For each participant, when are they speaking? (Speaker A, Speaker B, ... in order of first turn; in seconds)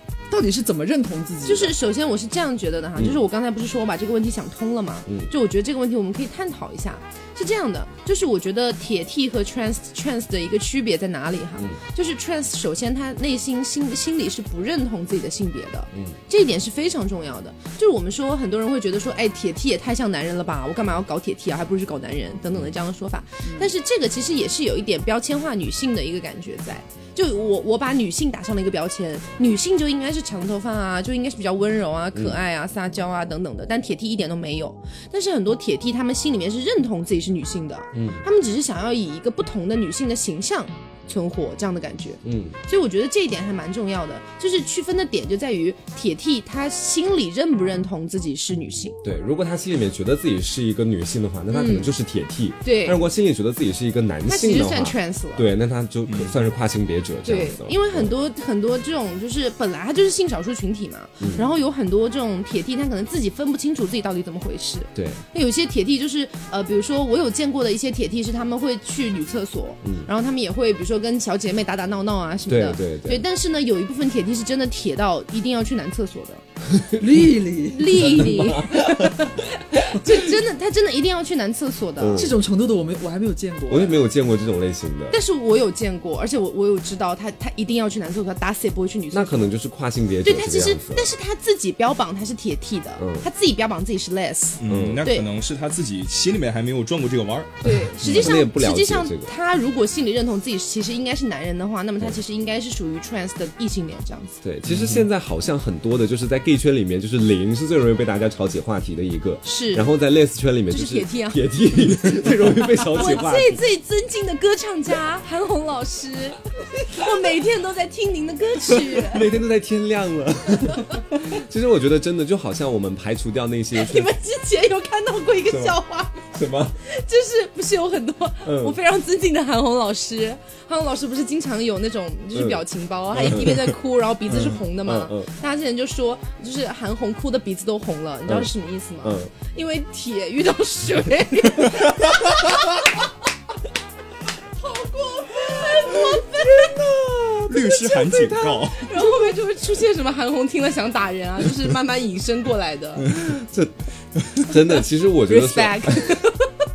Speaker A: 0.3-1.7, 23.4-23.7, 77.0-78.3, 82.1-84.0, 144.8-146.0
Speaker B: 1.4-49.0, 51.5-51.9, 52.6-53.0, 54.2-55.5, 57.2-76.4, 77.7-82.3, 85.1-89.5, 90.2-95.3, 97.6-104.4, 109.4-109.9, 110.7-111.5, 112.9-119.3, 123.7-126.3, 126.8-142.9, 144.9-146.7, 147.7-153.1, 155.3-156.5
Speaker C: 5.0-5.3, 32.1-32.4, 37.9-38.2, 42.2-42.6, 49.0-58.1, 61.2-61.5, 64.9-65.2, 72.5-73.2, 76.7-77.0, 77.9-79.2, 82.0-82.3, 83.7-85.2, 89.1-91.1, 93.0-93.3, 94.7-95.0, 98.0-99.3, 104.4-113.6, 118.9-124.1, 125.5-125.8, 126.3-126.8, 128.4-128.8, 132.3-132.6, 133.2-133.6, 134.3-135.3, 139.0-139.3, 146.3-147.7, 153.1-153.7, 154.3-156.2
Speaker D: 56.1-56.4, 94.6-98.3, 104.7-105.0, 147.5-148.9